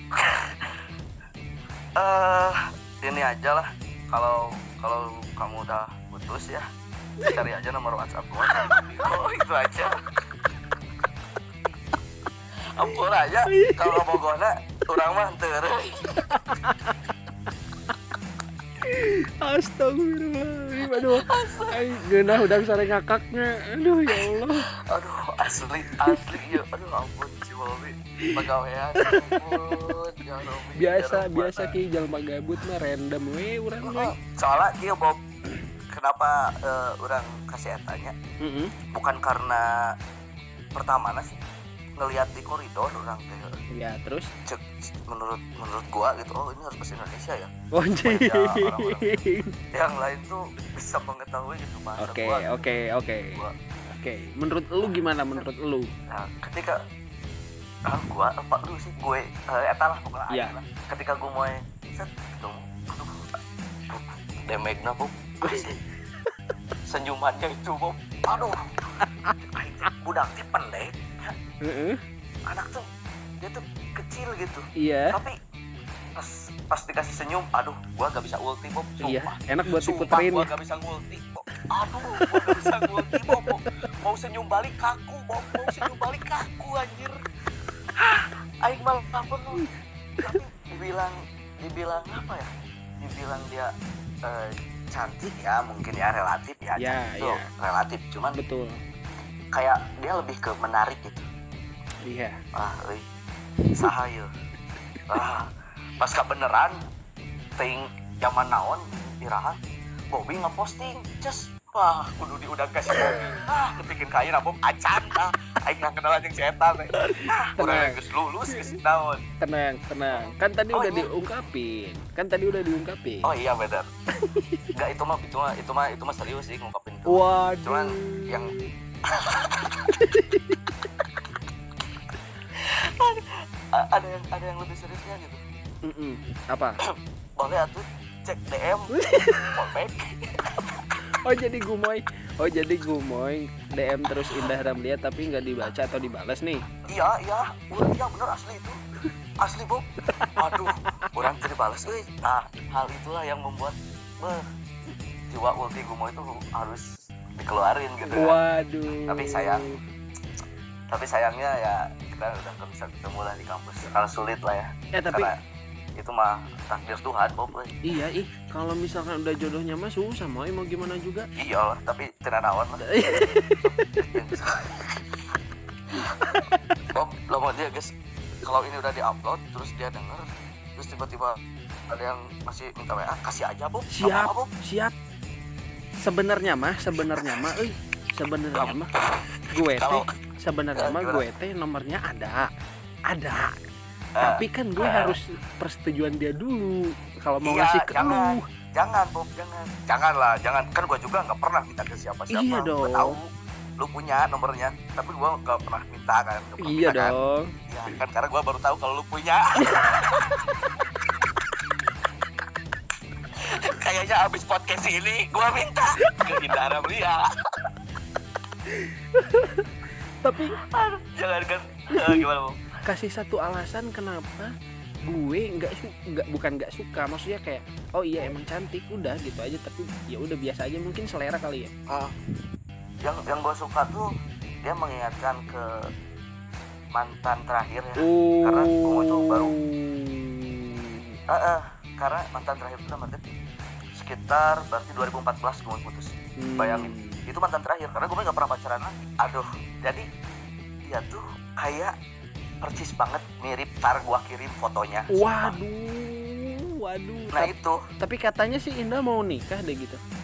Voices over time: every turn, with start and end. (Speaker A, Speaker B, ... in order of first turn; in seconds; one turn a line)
Speaker A: 0.1-0.7
Speaker A: 2.0-6.7
Speaker A: 7.3-10.0
Speaker A: 12.7-16.1
Speaker B: 13.5-14.1
Speaker B: 16.2-16.8
Speaker B: 18.8-24.7
Speaker A: 20.8-22.6
Speaker A: 24.1-31.7
Speaker B: 29.0-29.9
Speaker B: 30.7-34.1
Speaker A: 33.8-35.2
Speaker A: 35.9-38.1
Speaker B: 38.4-38.8
Speaker A: 38.9-39.9
Speaker A: 40.7-41.4
Speaker A: 42.0-43.6
Speaker B: 43.7-44.3
Speaker A: 44.5-47.5
Speaker B: 47.7-49.5
Speaker A: 48.0-49.2
Speaker A: 49.7-52.8
Speaker B: 52.0-55.9
Speaker A: 54.8-55.5
Speaker A: 56.1-56.8
Speaker A: 57.9-63.4
Speaker B: 60.3-60.5
Speaker A: 63.9-65.8
Speaker A: 66.9-68.6
Speaker B: 69.0-69.3
Speaker A: 69.4-71.3
Speaker B: 71.6-72.0
Speaker A: 72.5-72.8
Speaker A: 73.4-75.4
Speaker B: 74.8-75.2
Speaker A: 76.2-87.2
Speaker B: 79.0-80.5
Speaker B: 82.2-82.6
Speaker B: 83.2-83.5
Speaker A: 87.9-89.6
Speaker A: 90.2-92.5
Speaker A: 93.0-93.7
Speaker A: 94.2-98.4
Speaker B: 96.8-97.5
Speaker B: 98.3-98.8
Speaker A: 99.5-101.2
Speaker B: 102.0-102.4
Speaker A: 102.5-103.0
Speaker A: 103.7-104.3
Speaker A: 105.1-106.8
Speaker A: 107.6-109.6
Speaker A: 110.1-119.2
Speaker B: 117.0-118.8
Speaker B: 119.4-123.3
Speaker A: 120.1-121.1
Speaker A: 123.2-123.9
Speaker B: 124.2-124.6
Speaker A: 124.7-128.6
Speaker B: 127.1-128.7
Speaker A: 129.1-130.0
Speaker B: 129.9-130.6
Speaker A: 132.5-135.4
Speaker B: 135.8-136.8
Speaker A: 137.4-140.8
Speaker B: 138.9-139.6
Speaker B: 141.2-146.7
Speaker A: 146.9-148.8
Speaker A: 149.4-154.4
Speaker B: 150.2-150.6
Speaker A: 155.3-158.4
Speaker B: 158.1-159.8
Speaker A: 158.9-159.8
Speaker A: 160.9-165.4
Speaker B: 164.9-165.3
Speaker A: 166.0-167.8
Speaker B: 167.8-171.3
Speaker A: 171.4-172.8
Speaker B: 172.8-174.2
Speaker A: 173.6-175.0
Speaker A: 176.0-184.5
Speaker B: 176.5-176.8
Speaker B: 183.9-184.9
Speaker B: 186.0-188.9
Speaker A: 188.5-188.8
Speaker A: 189.5-190.1
Speaker B: 189.5-192.5
Speaker A: 190.8-191.2
Speaker B: 193.1-193.5
Speaker A: 194.2-195.2
Speaker B: 194.2-198.4
Speaker A: 197.4-207.2
Speaker B: 202.3-203.2
Speaker B: 206.6-207.5
Speaker A: 207.7-210.4
Speaker B: 209.6-210.1
Speaker A: 213.4-217.7
Speaker B: 218.8-219.7
Speaker B: 220.2-220.6
Speaker A: 220.7-222.7
Speaker B: 221.9-222.2
Speaker B: 222.8-224.5
Speaker B: 225.0-231.7
Speaker A: 231.9-232.1
Speaker A: 233.0-235.7
Speaker A: 236.9-239.5
Speaker B: 238.0-241.2
Speaker A: 241.3-243.2
Speaker A: 244.0-250.1
Speaker B: 246.4-247.2
Speaker A: 250.9-251.9
Speaker A: 252.6-255.6
Speaker B: 255.1-260.0
Speaker A: 257.3-257.8